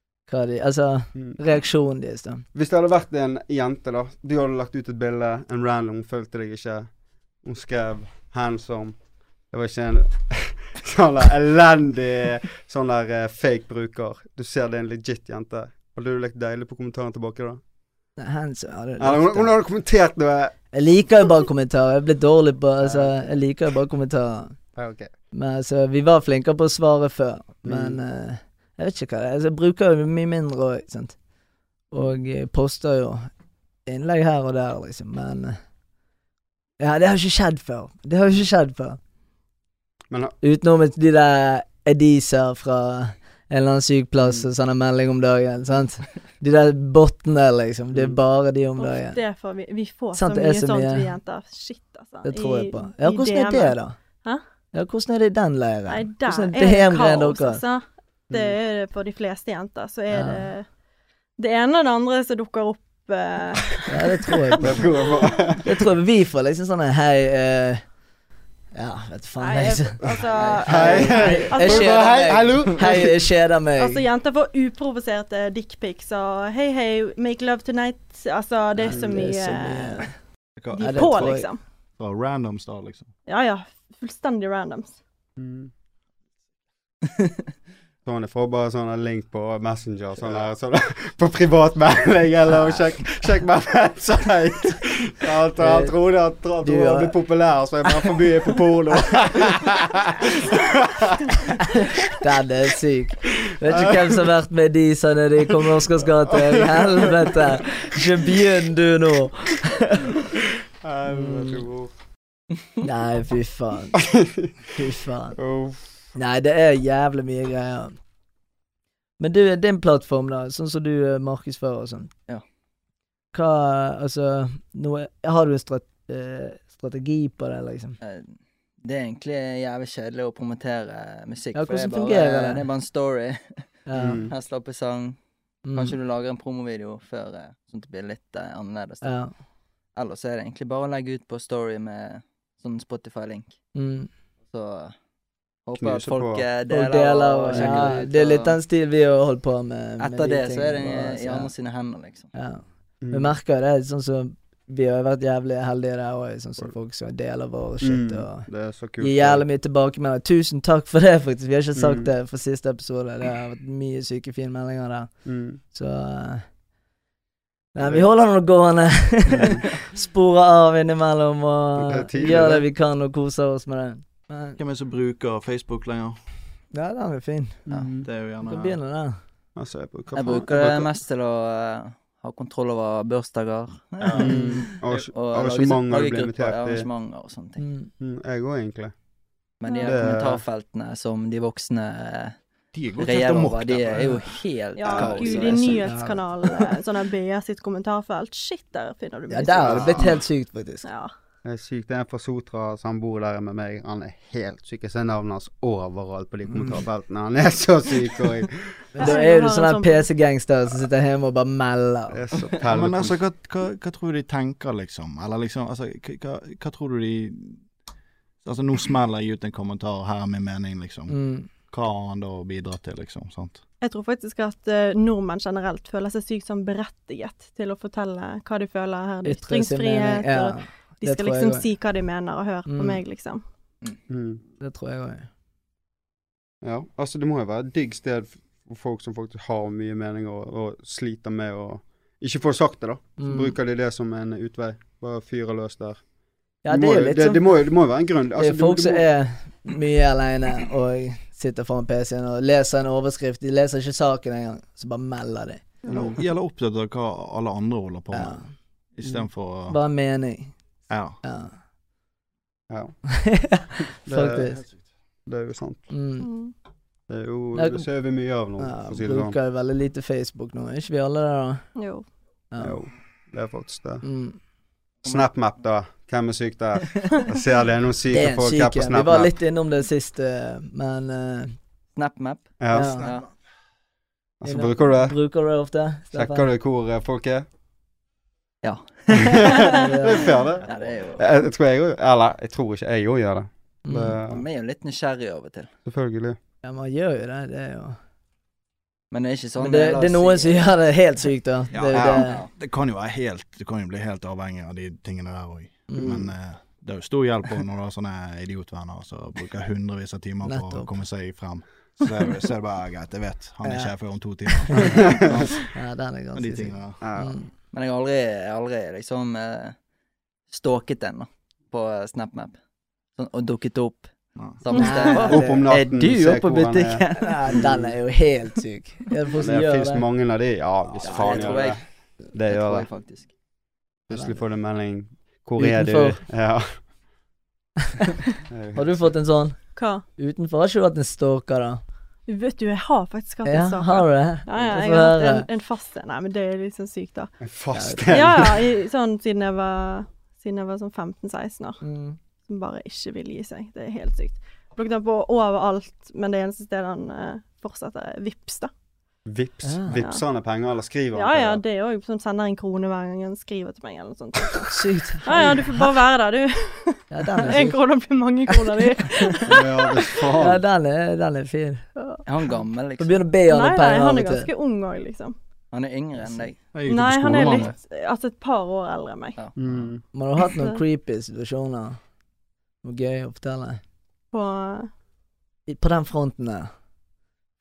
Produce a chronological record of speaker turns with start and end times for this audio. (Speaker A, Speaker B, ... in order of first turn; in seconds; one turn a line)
Speaker A: 0.3-2.4
Speaker B: 2.5-6.9
Speaker B: 7.4-9.0
Speaker B: 9.5-17.6
Speaker A: 18.2-19.5
Speaker B: 19.0-20.6
Speaker A: 20.7-24.6
Speaker B: 22.8-23.3
Speaker B: 24.8-25.1
Speaker A: 25.3-31.1
Speaker B: 27.6-28.0
Speaker A: 31.9-33.3
Speaker A: 33.9-35.6
Speaker A: 36.8-39.0
Speaker B: 40.1-40.4
Speaker A: 40.4-49.2
Speaker C: 48.8-54.4
Speaker A: 50.1-51.1
Speaker A: 52.2-53.9
Speaker A: 54.7-57.6
Speaker C: 55.9-60.6
Speaker B: 58.3-58.6
Speaker A: 60.1-60.5
Speaker C: 61.4-65.3
Speaker A: 63.9-64.8
Speaker B: 64.6-65.7
Speaker A: 65.6-67.8
Speaker A: 68.7-74.0
Speaker C: 69.4-72.5
Speaker B: 70.0-73.2
Speaker C: 73.8-80.1
Speaker A: 78.8-80.1
Speaker B: 78.9-79.2
Speaker D: 80.6-81.4
Speaker C: 80.7-81.6
Speaker A: 80.8-81.5
Speaker D: 82.0-83.1
Speaker C: 83.3-85.0
Speaker B: 85.4-85.7
Speaker B: 88.0-102.1
Speaker A: 92.5-92.8
Speaker A: 95.6-95.9
Speaker A: 96.6-97.2
Speaker A: 102.1-110.2
Speaker B: 103.6-104.2
Speaker B: 106.3-107.9
Speaker B: 110.8-111.9
Speaker A: 111.1-111.6
Speaker A: 112.8-114.0
Speaker B: 114.0-114.5
Speaker A: 114.8-115.4
Speaker B: 115.4-115.9
Speaker A: 116.1-118.0
Speaker A: 119.2-122.1
Speaker A: 123.3-128.0
Speaker E: 128.0-133.7
Speaker A: 131.5-132.6
Speaker A: 133.9-134.3
Speaker B: 133.9-134.3
Speaker E: 134.3-135.2
Speaker A: 135.6-136.0
Speaker E: 135.7-139.2
Speaker A: 139.0-139.3
Speaker E: 140.0-143.6
Speaker A: 143.8-144.1
Speaker E: 144.5-144.9
Speaker E: 145.6-148.6
Speaker B: 145.8-146.4
Speaker A: 146.7-151.5
Speaker B: 147.5-148.0
Speaker E: 150.0-152.3
Speaker A: 152.3-158.5
Speaker B: 153.0-153.3
Speaker B: 157.8-159.4
Speaker A: 159.0-166.4
Speaker B: 161.8-162.1
Speaker B: 165.3-165.6
Speaker A: 167.8-174.6
Speaker B: 169.3-169.6
Speaker B: 171.8-172.7
Speaker D: 174.6-176.2
Speaker A: 176.7-177.6
Speaker B: 177.7-178.1
Speaker D: 178.0-178.8
Speaker A: 178.4-179.2
Speaker B: 179.6-180.9
Speaker E: 180.1-187.6
Speaker D: 184.0-184.4
Speaker B: 184.2-186.9
Speaker A: 184.2-184.7
Speaker A: 187.6-187.9
Speaker B: 188.0-188.9
Speaker E: 189.6-192.4
Speaker C: 189.7-190.1
Speaker B: 189.8-190.4
Speaker D: 192.7-194.4
Speaker E: 193.0-195.9
Speaker C: 194.8-200.1
Speaker B: 195.0-195.3
Speaker A: 195.6-196.7
Speaker A: 199.3-200.9
Speaker B: 199.6-200.2
Speaker C: 200.8-201.1
Speaker B: 201.4-208.6
Speaker A: 208.9-212.2
Speaker C: 209.0-210.1
Speaker B: 212.1-213.2
Speaker D: 212.6-217.6
Speaker D: 218.4-223.6
Speaker A: 221.1-221.5
Speaker C: 223.8-233.4
Speaker A: 229.2-231.7
Speaker A: 232.7-233.0
Speaker B: 234.1-234.4
Speaker A: 234.6-235.3
Speaker B: 236.6-246.0
Speaker A: 243.2-243.6
Speaker A: 246.6-247.4
Speaker B: 246.7-249.0
Speaker A: 248.4-255.6
Speaker B: 255.9-256.2
Speaker D: 255.9-258.4
Speaker A: 258.1-258.5
Speaker D: 258.9-259.8
Speaker A: 259.7-260.6
Speaker D: 260.9-261.2
Speaker A: 261.2-261.6
Speaker B: 262.7-263.0
Speaker A: 263.1-264.6
Speaker B: 264.0-264.6
Speaker B: 265.3-265.9
Speaker A: 265.9-266.3
Speaker C: 266.2-266.5
Speaker B: 267.1-269.4
Speaker A: 267.6-267.9
Speaker A: 268.6-271.6
Speaker C: 271.8-272.1
Speaker A: 272.5-272.8
Speaker B: 272.6-274.0
Speaker A: 274.0-274.4
Speaker B: 275.1-279.3
Speaker A: 278.1-281.6
Speaker E: 281.9-283.3
Speaker B: 282.6-283.1
Speaker A: 282.7-283.1
Speaker B: 284.4-285.1
Speaker A: 284.4-286.5
Speaker B: 286.1-287.5
Speaker E: 288.6-289.8
Speaker B: 289.1-294.4
Speaker A: 289.7-290.3
Speaker E: 290.6-291.3
Speaker A: 293.9-294.2
Speaker E: 294.3-295.7
Speaker B: 295.9-296.4
Speaker A: 296.6-298.0
Speaker E: 299.1-300.7
Speaker A: 299.6-302.5
Speaker D: 301.7-315.7
Speaker E: 302.1-302.5
Speaker A: 305.9-306.1
Speaker B: 306.0-306.3
Speaker A: 310.4-310.9
Speaker A: 313.6-313.9
Speaker A: 314.5-315.1
Speaker B: 314.8-315.3
Speaker A: 315.6-317.5
Speaker D: 316.3-317.0
Speaker B: 317.0-317.4
Speaker E: 317.7-319.8
Speaker E: 320.5-322.6
Speaker E: 323.1-327.6
Speaker D: 324.4-324.6
Speaker A: 324.7-325.7
Speaker C: 324.7-325.3
Speaker B: 325.3-328.0
Speaker A: 327.2-330.1
Speaker B: 329.4-332.9
Speaker D: 330.9-331.8
Speaker E: 331.0-333.3
Speaker B: 334.1-336.8
Speaker A: 334.1-334.4
Speaker A: 335.6-336.2
Speaker B: 338.5-339.1
Speaker A: 338.8-341.8
Speaker C: 339.8-340.1
Speaker C: 342.3-347.3
Speaker A: 343.4-345.5
Speaker B: 347.4-348.6
Speaker A: 347.7-348.4
Speaker C: 348.1-351.8
Speaker A: 351.8-352.2
Speaker C: 352.5-358.7
Speaker B: 359.3-361.6
Speaker A: 359.6-360.0
Speaker C: 359.9-360.2
Speaker C: 361.1-370.2
Speaker A: 364.7-365.9
Speaker A: 367.1-367.8
Speaker A: 368.5-368.9
Speaker B: 369.5-370.6
Speaker A: 370.4-371.9
Speaker C: 372.0-372.2
Speaker E: 372.2-373.2
Speaker A: 373.0-374.5
Speaker C: 373.5-375.4
Speaker E: 375.7-376.6
Speaker D: 376.7-377.7
Speaker C: 376.9-379.4
Speaker B: 379.6-380.0
Speaker A: 380.1-382.0
Speaker C: 380.4-380.8
Speaker A: 382.8-383.8
Speaker C: 384.3-384.9
Speaker A: 385.7-386.7